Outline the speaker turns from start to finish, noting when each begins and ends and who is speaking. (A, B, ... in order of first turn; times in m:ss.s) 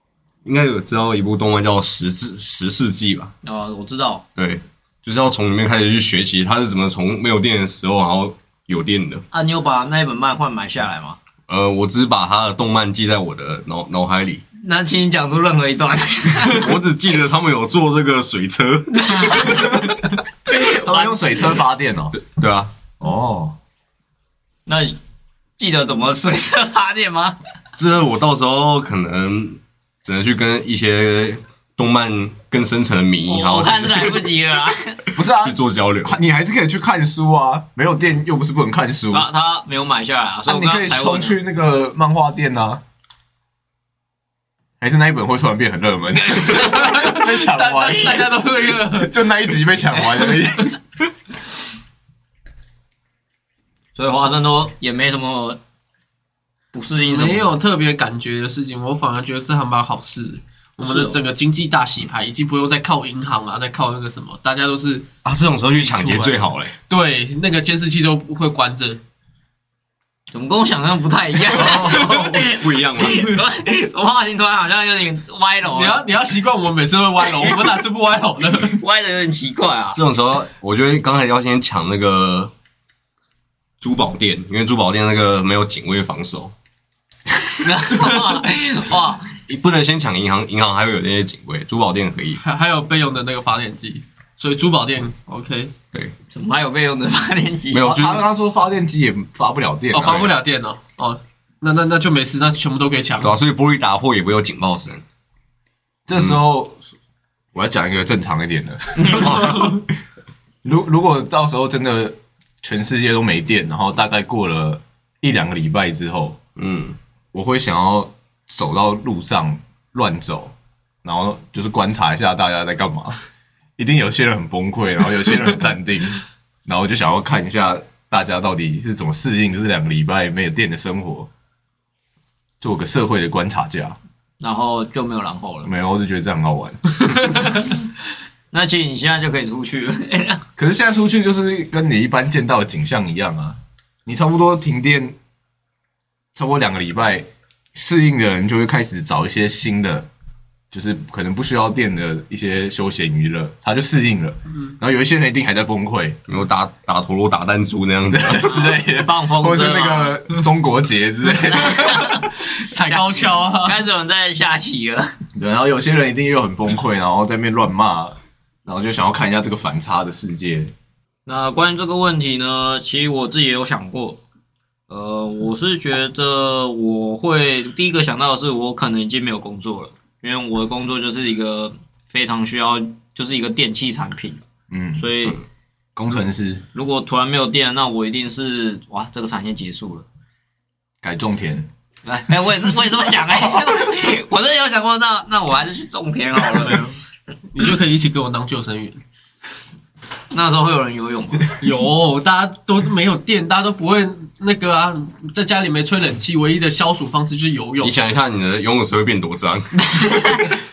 0:00.4-0:03.3 A
0:03.4-0:04.2 B
0:04.4-0:09.2 A
0:09.3-0:11.2 B
0:11.5-0:14.4 A
0:14.6-0:16.7 B
0:16.4-0:19.7 A
0:18.9-0:19.9 B
0:20.5-0:21.6 B
0:20.5-0:22.2 C
0:22.1-0:22.7 A
0:23.0-0:23.6 C
0:24.7-0:25.0 B
0:25.6-0:27.4 B
0:27.8-0:34.3 A
0:33.3-0:35.0 B
0:35.1-0:39.3 C
0:35.4-0:36.2 A
0:39.1-0:41.4 B
0:40.5-0:42.8 C
0:44.8-0:50.8 C
0:46.4-0:49.2 D
0:54.0-0:55.6 B
0:56.7-0:57.5 B
0:57.0-1:05.1 D
1:00.8-1:01.2 B
1:05.2-1:06.7 A
1:05.8-1:09.0 D
1:10.3-1:16.0 B
1:11.5-1:13.4 A
1:15.6-1:18.8 D
1:18.5-1:20.0 B
1:20.0-1:22.5 A
1:23.8-1:26.5 A
1:27.6-1:29.3 B
1:29.5-1:32.4 A
1:32.4-1:35.7 D
1:36.3-1:37.9 B
1:37.7-1:38.2 A
1:37.8-1:40.3 C
1:39.9-1:43.4 D
1:43.2-1:45.0 A
1:46.1-1:46.8 C
1:47.5-1:49.8 C
1:49.0-1:49.4 B
1:49.2-1:49.6 A
1:50.6-1:56.4 C
1:56.6-1:57.0 A
1:57.3-2:03.2 C
2:03.8-2:11.3 C
2:12.6-2:14.0 C
2:14.4-2:15.7 B
2:15.6-2:17.4 C
2:18.5-2:20.4 B
2:20.6-2:25.2 C
2:26.3-2:30.1 C
2:30.7-2:36.2 C
2:36.3-2:38.6 A
2:38.1-2:42.0 C
2:38.5-2:40.2 B
2:41.5-2:45.1 B
2:41.6-2:43.8 D
2:45.4-2:50.7 C
2:51.3-2:54.2 B
2:54.9-3:04.4 B
3:04.7-3:05.3 C
3:05.0-3:05.4 B
3:06.0-3:06.6 C
3:06.7-3:10.1 B
3:11.0-3:11.7 C
3:12.0-3:16.9 B
3:16.6-3:16.9 D
3:17.5-3:19.0 D
3:20.3-3:21.5 B
3:21.6-3:27.9 D
3:27.8-3:30.2 A
3:30.0-3:30.5 B